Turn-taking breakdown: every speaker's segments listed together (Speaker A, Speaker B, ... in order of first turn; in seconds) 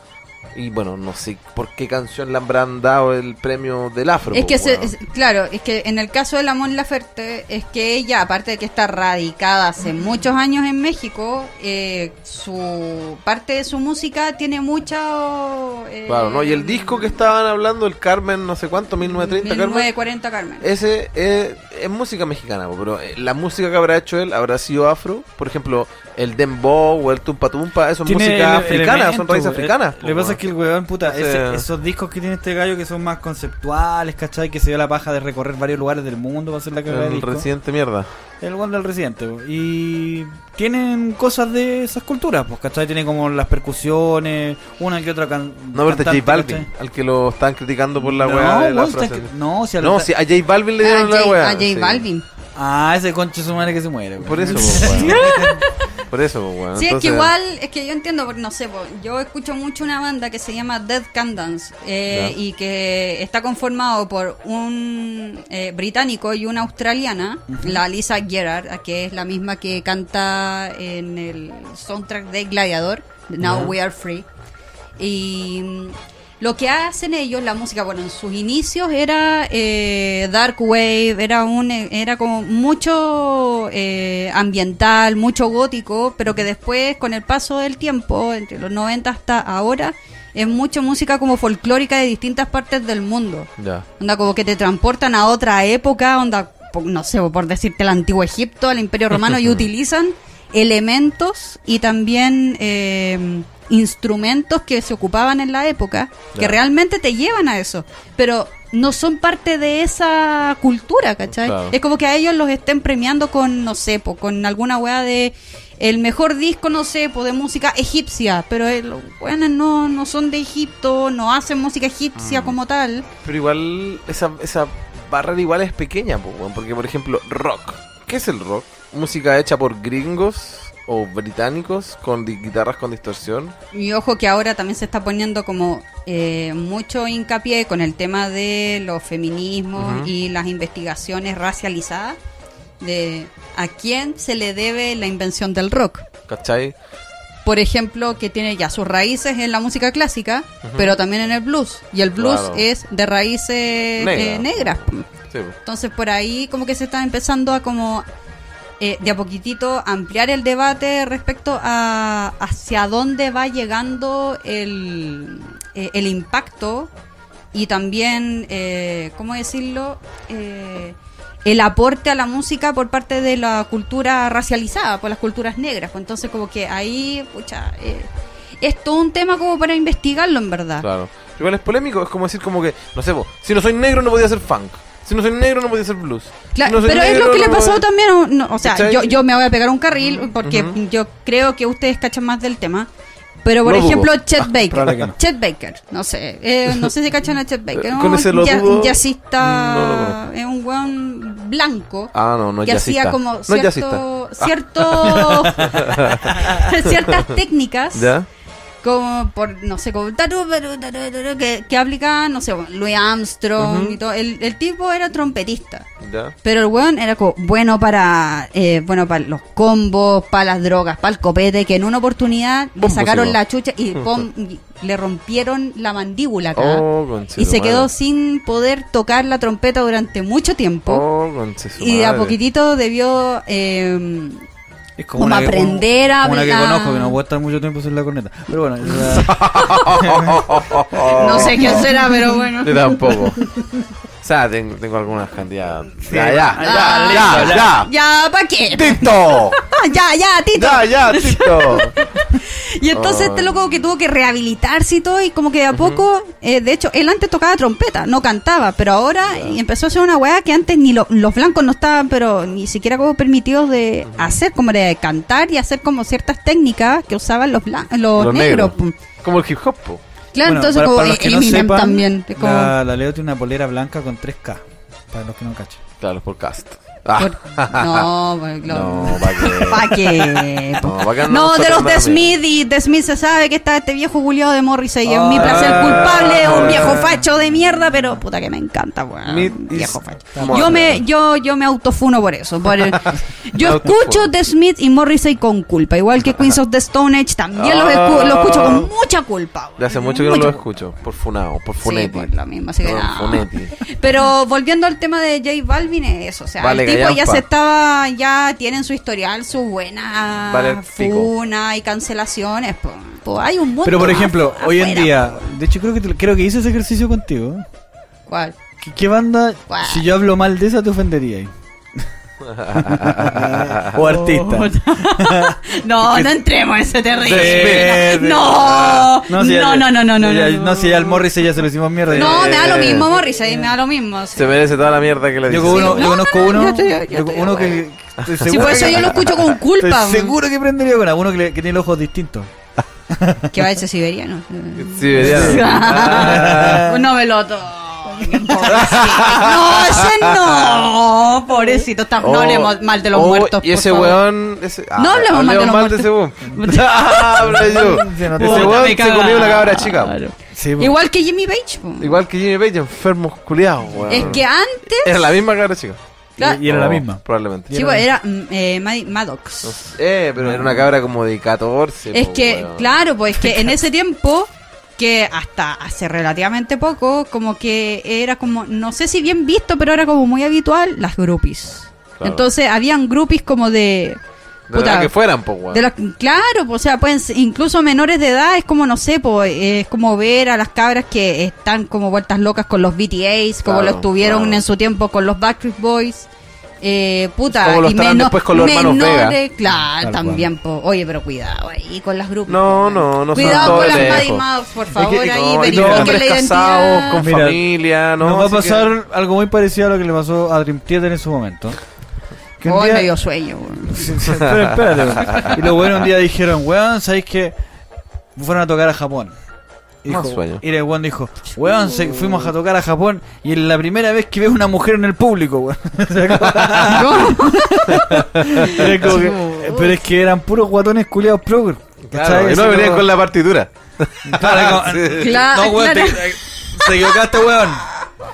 Speaker A: 0.5-4.9, 16.1-19.9, 20.6-30.4, 31.0-31.6, 36.9-38.1, 45.7-49.3, 49.8-52.0, 54.2-55.4, 56.1-57.3, 62.1-62.4, 73.4-73.7, 93.6-93.9, 106.3-106.6, 111.3-111.7, 122.2-122.6, 123.2-133.5, 139.8-140.1, 146.3-146.7, 150.6-150.9, 152.2-152.7, 154.0-155.6, 180.8-187.8, 188.6-189.2, 190.4-190.8, 193.6-194.5, 197.7-200.2, 202.1-207.3, 207.9-208.3, 213.6-214.0, 216.0-216.3, 222.8-223.4, 223.9-224.2, 226.6-227.9, 230.9-232.4, 239.0-242.0, 242.6-243.4, 244.2-247.9, 248.7-249.6, 250.6-251.9, 252.9-253.8, 255.7-256.0, 259.3-259.6, 264.1-264.4, 268.1-270.0, 276.0-278.1, 278.6-282.4, 285.3-287.0, 289.2-291.0, 293.5-294.3, 297.6-298.9, 299.8-302.3, 302.8-303.8, 306.6-307.4, 310.5-311.3, 322.5-323.9, 327.3-329.1, 332.1-333.1, 334.4-336.2, 338.2-339.5, 344.8-346.9, 348.7-350.9, 352.2-360.2, 362.0-364.4, 365.0-366.0, 366.6-367.7, 369.6-373.0, 382.2-382.5, 384.7-385.9, 393.6-394.6, 397.5-399.4, 402.5-404.4, 404.9-408.9, 414.4-415.6, 420.1-420.6, 426.4-427.0, 427.9-428.9, 432.1-435.4
Speaker B: 4.3-17.2, 19.1-20.6, 50.8-52.2, 54.6-55.7, 56.7-74.2, 75.0-123.1, 133.7-142.2, 142.8-146.1, 147.4-155.1, 155.7-158.1, 158.8-166.9, 167.5-178.1, 178.6-180.9, 186.6-192.9, 193.4-208.1, 208.8-215.9, 216.4-226.9, 227.4-231.1, 231.8-234.4, 235.2-237.2, 239.6-240.1, 241.1-243.3, 246.6-268.9, 270.3-272.7, 277.2-300.6, 301.8-315.5, 318.3-318.6, 319.7-320.1, 324.0-331.2, 332.1-334.7, 335.6-337.8, 338.4-340.4, 343.5-354.2, 355.0-362.2, 364.1-365.2, 366.4-366.6, 367.7-369.9, 372.1-384.2, 384.7-385.1, 385.7-396.3, 396.8-407.2, 412.6-414.2, 421.6-422.0, 426.9-430.0, 435.1-437.1
Speaker C: 28.0-37.5, 38.4-46.7, 48.0-50.1, 52.5-55.6, 67.5-67.8, 194.7-195.2, 205.5-206.6, 235.0-240.4, 243.4-243.8, 246.1-247.7, 270.4-275.8, 285.1-287.2, 290.4-290.7, 313.8-317.6, 318.8-321.5, 322.6-326.3, 327.3-328.6, 329.3-332.9, 335.5-342.5, 343.1-343.5, 345.1-347.0, 348.1-348.9, 357.4-359.0, 360.6-360.9, 364.0-364.4, 366.4-368.1, 370.4-370.9, 399.7-400.4, 403.4-404.2, 405.6-406.2, 407.2-407.6, 408.2-411.8, 412.6-413.1, 413.9-417.5, 418.4-419.3, 420.0-433.1, 434.2-437.9